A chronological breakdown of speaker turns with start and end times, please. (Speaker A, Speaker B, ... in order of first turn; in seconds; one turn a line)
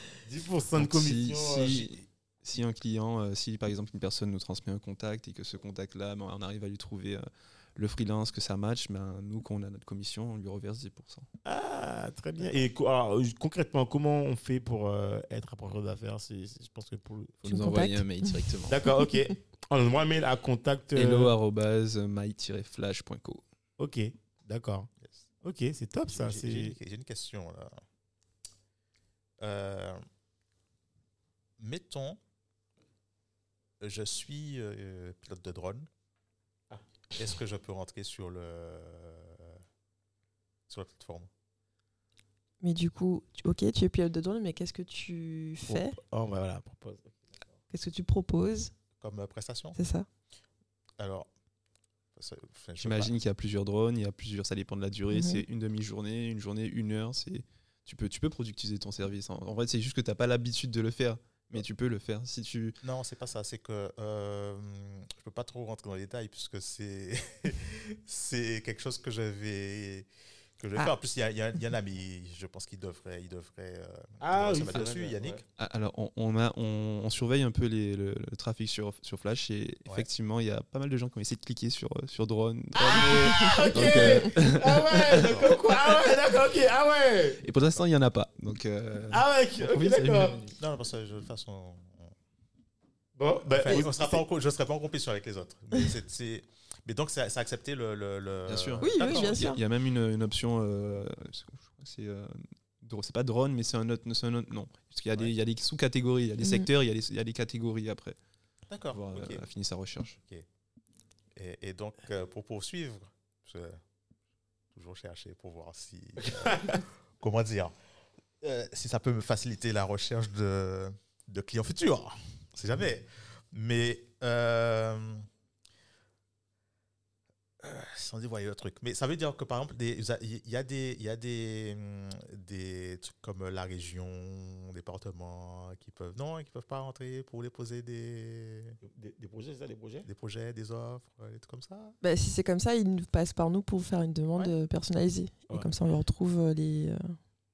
Speaker A: 0.2-1.9
Speaker B: 0.8-11.3
Speaker A: 11.4-17.6
Speaker C: 17.4-18.3
Speaker B: 17.4-18.8
Speaker A: 18.7-21.3
Speaker B: 20.9-23.4
Speaker A: 23.8-24.9
Speaker A: 25.4-26.7
Speaker D: 26.1-27.8
Speaker D: 29.4-30.0
Speaker D: 31.6-32.2
Speaker D: 33.8-35.9
Speaker A: 36.7-37.2
Speaker D: 37.1-39.6
Speaker D: 40.7-41.3
Speaker C: 42.6-46.0
Speaker A: 45.7-47.3
Speaker C: 47.7-48.7
Speaker D: 49.0-49.8
Speaker C: 49.7-50.1
Speaker D: 51.0-51.3
Speaker D: 52.1-53.1
Speaker B: 52.8-62.8
Speaker C: 55.1-55.4
Speaker D: 62.8-75.4
Speaker A: 74.2-75.4
Speaker B: 75.6-86.0
Speaker A: 82.8-87.4
Speaker D: 85.2-85.6
Speaker B: 87.4-90.6
Speaker A: 89.1-90.4
Speaker D: 90.6-92.1
Speaker A: 93.2-94.2
Speaker D: 93.4-99.5
Speaker B: 98.5-108.2
Speaker C: 98.8-99.6
Speaker D: 108.7-109.4
Speaker B: 108.9-110.2
Speaker D: 111.3-113.8
Speaker D: 114.7-117.7
Speaker A: 116.2-116.8
Speaker D: 118.4-125.3
Speaker D: 127.6-138.8
Speaker A: 138.8-140.1
Speaker D: 140.1-141.9
Speaker C: 142.0-147.2